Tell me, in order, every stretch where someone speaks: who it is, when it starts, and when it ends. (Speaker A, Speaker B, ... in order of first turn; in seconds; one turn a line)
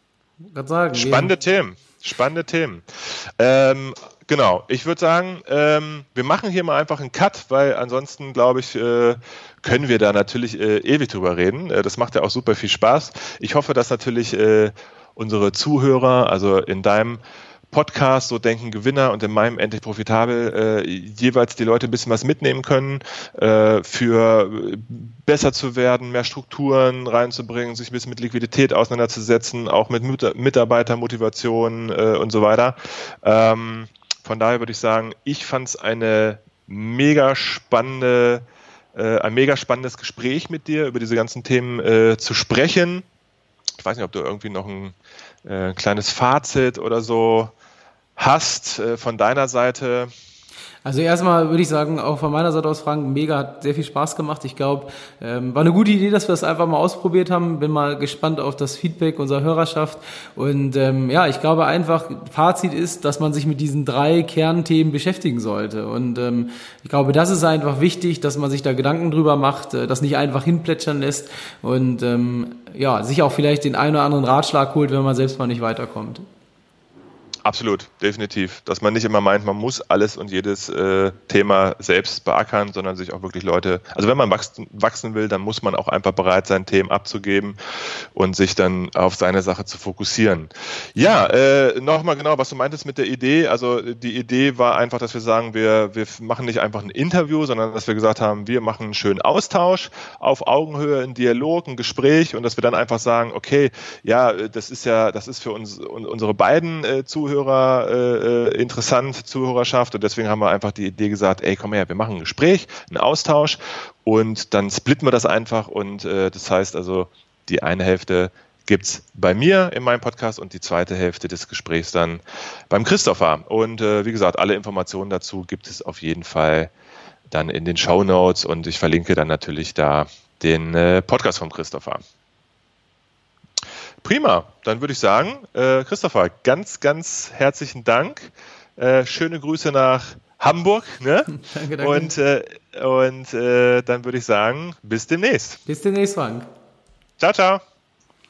Speaker A: 0.5-1.3
Speaker B: 0.9-38.4
Speaker B: 38.9-43.0
Speaker B: 43.8-47.5
Speaker B: 48.2-50.1
Speaker A: 50.8-76.2
Speaker B: 77.4-87.6
Speaker B: 88.1-126.7
Speaker B: 127.3-132.0
Speaker B: 134.0-145.6
Speaker A: 141.3-142.1
Speaker A: 145.7-146.5
Speaker B: 147.2-147.6